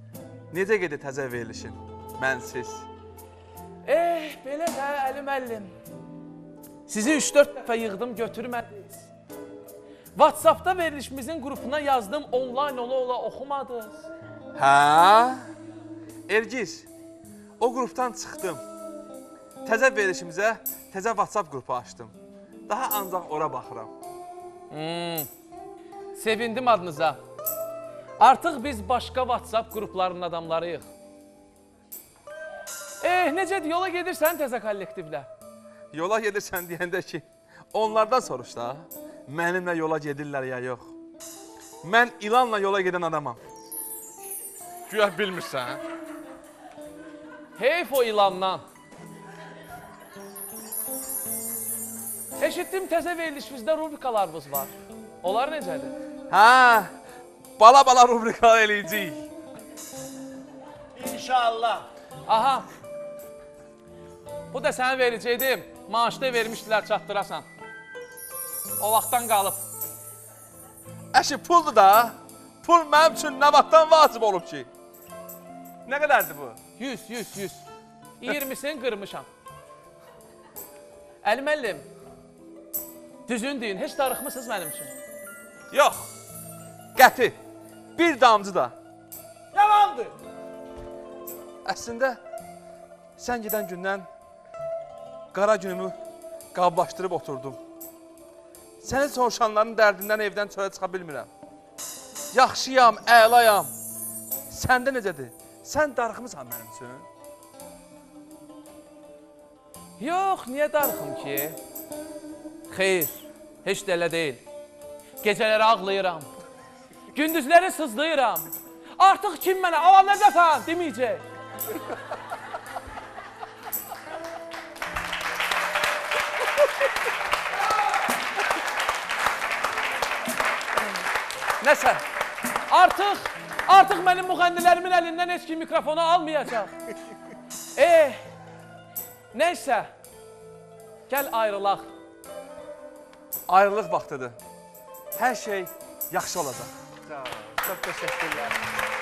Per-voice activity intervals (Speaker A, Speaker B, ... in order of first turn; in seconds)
Speaker A: 0.5-2.9, 14.6-15.4, 16.3-16.9, 17.6-18.6, 19.6-22.2, 22.7-23.9, 35.9-40.9, 41.8-43.4, 44.9-45.8, 56.3-56.9, 57.6-59.3, 71.1-74.7, 75.9-76.6, 85.7-86.1, 87.0-87.4, 88.0-88.8, 91.7-92.2, 93.2-94.1, 95.3-96.0, 96.5-97.6, 98.8-101.3, 102.3-103.7, 104.5-107.1, 143.5-144.4, 145.2-146.7
Speaker B: 3.9-5.8, 6.9-9.1, 10.2-14.1, 24.7-25.3, 26.1-27.2, 28.2-30.9, 33.0-35.3, 47.6-48.6, 52.4-55.9, 62.3-62.7, 64.5-67.5, 68.8-69.6, 76.8-77.7, 78.2-79.3, 81.2-81.9, 83.3-84.9, 89.5-90.1, 110.0-111.6, 112.7-114.4, 115.2-116.3, 117.1-121.2, 131.6-132.0, 132.7-136.7, 137.8-138.2, 139.3-139.9, 141.1-141.9
Speaker C: 61.0-61.9, 147.1-148.6